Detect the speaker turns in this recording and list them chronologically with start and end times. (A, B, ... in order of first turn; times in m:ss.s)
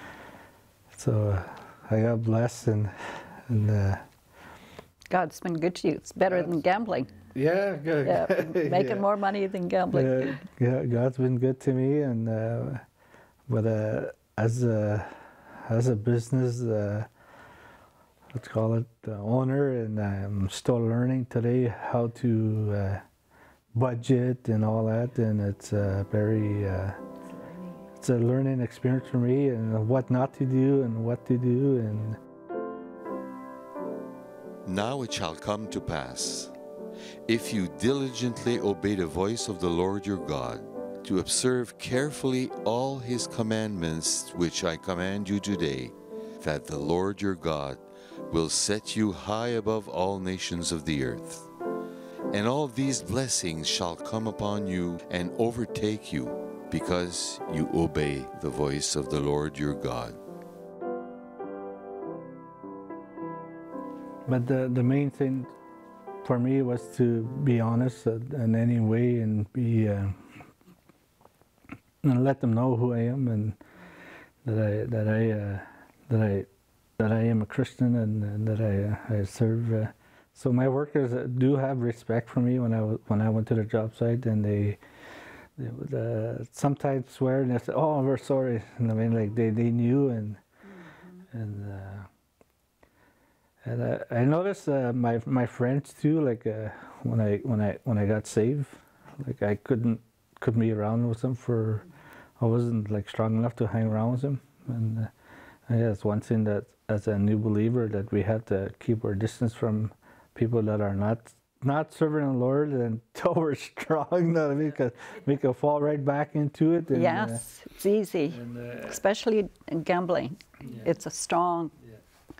0:00.9-0:04.0 A
0:05.1-0:07.1 B
0:07.3-0:09.1 A
0:08.0-0:10.4 B
0:09.9-0:12.8 A
0:13.5-0:17.1 A
0:18.3-0:23.0 A
0:23.7-0:27.0 A
0:28.0-0:32.2 A
0:34.6-0:36.5 C
0:37.3-0:51.4 C
0:52.3-1:00.2 C
1:04.2-1:05.5 A
1:06.2-1:10.4 A
1:12.0-1:13.6 A
1:14.4-1:24.8 A
1:25.6-1:30.4 A
1:31.3-1:32.1 A
1:33.6-1:41.8 A
1:42.4-1:45.1 A
1:45.7-1:57.4 A
1:56.9-2:01.8 B
1:58.3-1:58.9 A